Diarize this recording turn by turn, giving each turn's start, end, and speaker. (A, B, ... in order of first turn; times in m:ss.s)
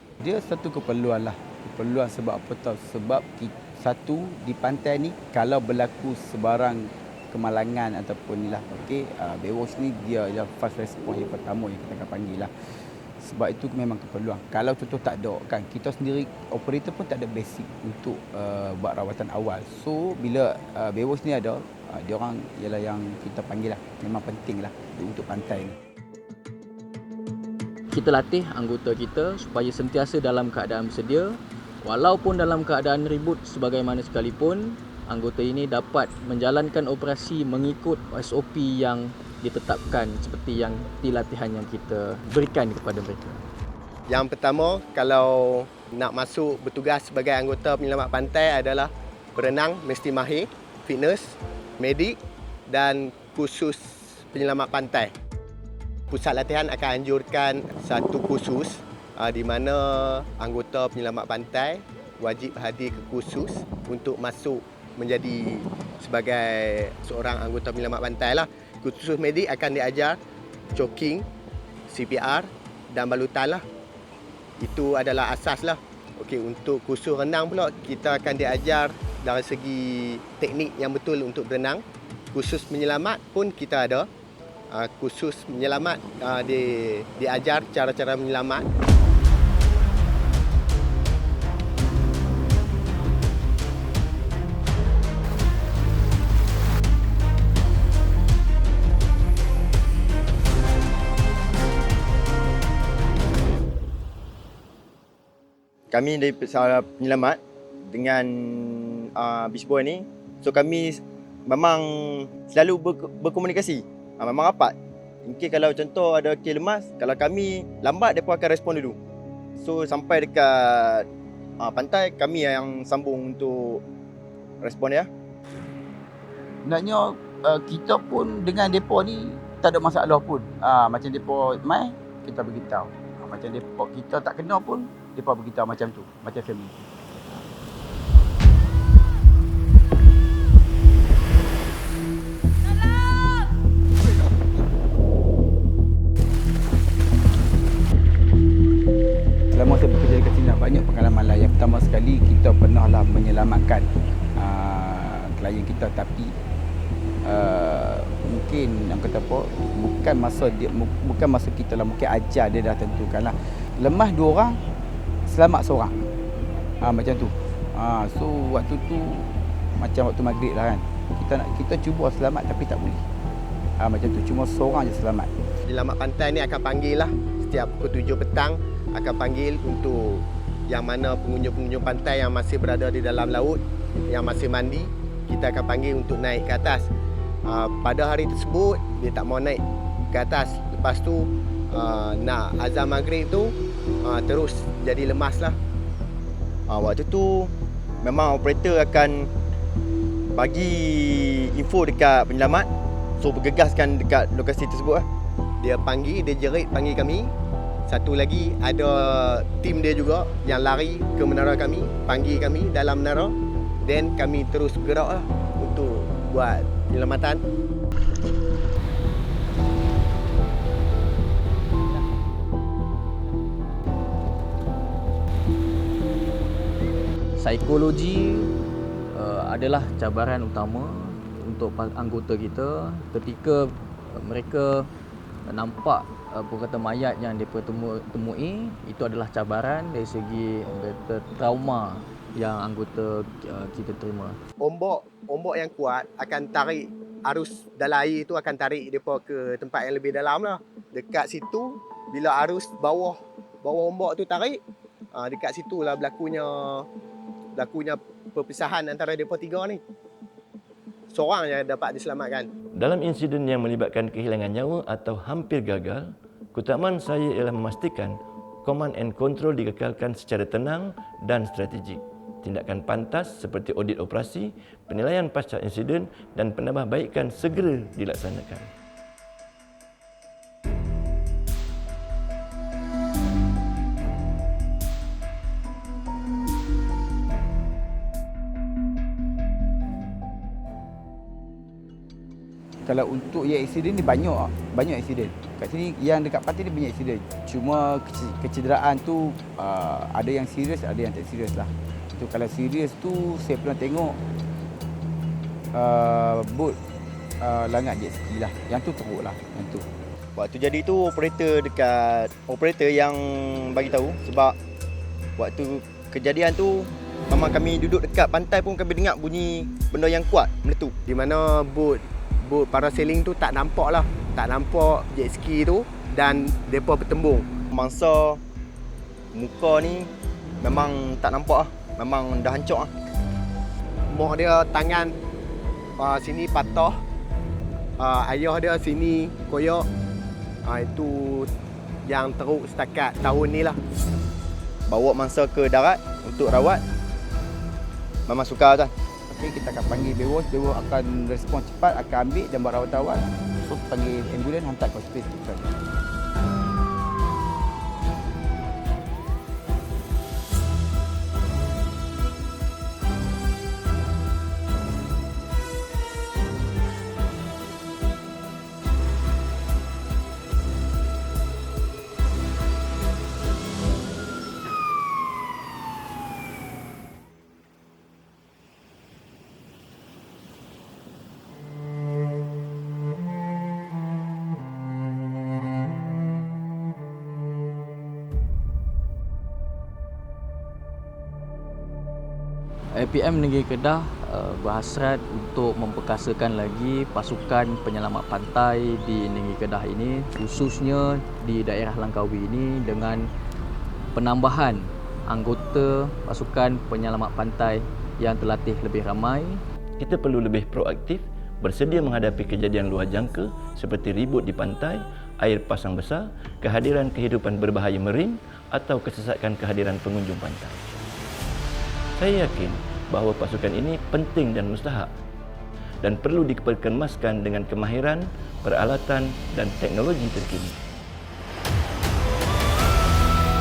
0:00.2-0:12.5 A
0:13.2-0:25.8 A
0:27.9-0:43.4 B
0:44.1-0:52.2 C
0:52.7-0:55.1 C
0:56.1-1:10.2 C
1:10.7-1:11.2 C
1:11.9-1:13.6 C
1:14.6-1:24.1 C
1:24.7-1:28.7 C
1:45.9-1:54.7 D
1:55.2-1:59.0 D
1:59.6-2:01.0 D
2:01.6-2:03.8 D
2:04.6-2:05.1 D
2:06.6-2:17.4 A
2:29.5-2:36.3 A
2:37.2-2:44.6 A
2:45.3-2:46.0 A
2:46.8-2:53.0 A
2:53.8-2:55.3 A
2:55.7-3:06.9 C
3:07.4-3:15.6 C
3:16.7-3:19.3 D
3:20.3-3:22.7 D
3:23.2-3:25.0 D
3:25.6-3:27.3 C
3:27.9-3:37.4 C
3:47.4-3:48.5 B
3:49.1-3:54.9 B
3:55.5-4:04.4 B
4:04.6-4:14.6 C
4:15.1-4:16.9 C
4:17.6-4:19.8 C
4:21.1-4:22.5 C
4:22.8-4:38.7 E
4:52.8-5:04.2 A
5:05.7-5:06.8 A
5:07.4-5:09.8 A
5:10.4-5:14.6 D
5:15.4-5:20.9 D
5:21.0-5:27.5 C
5:27.7-5:28.4 D
5:29.3-5:30.1 D
5:30.6-5:32.9 D
5:34.1-5:35.1 C
5:36.0-5:37.0 C
5:38.0-5:39.9 C
5:40.6-5:41.5 C
5:42.0-5:43.8 C
5:44.9-5:46.8 D
5:48.3-5:48.9 D
5:49.3-5:55.8 A
6:32.9-6:43.3 B
6:44.1-6:49.6 B
6:50.0-7:01.0 E
7:02.2-7:05.1 E
7:06.0-7:10.8 E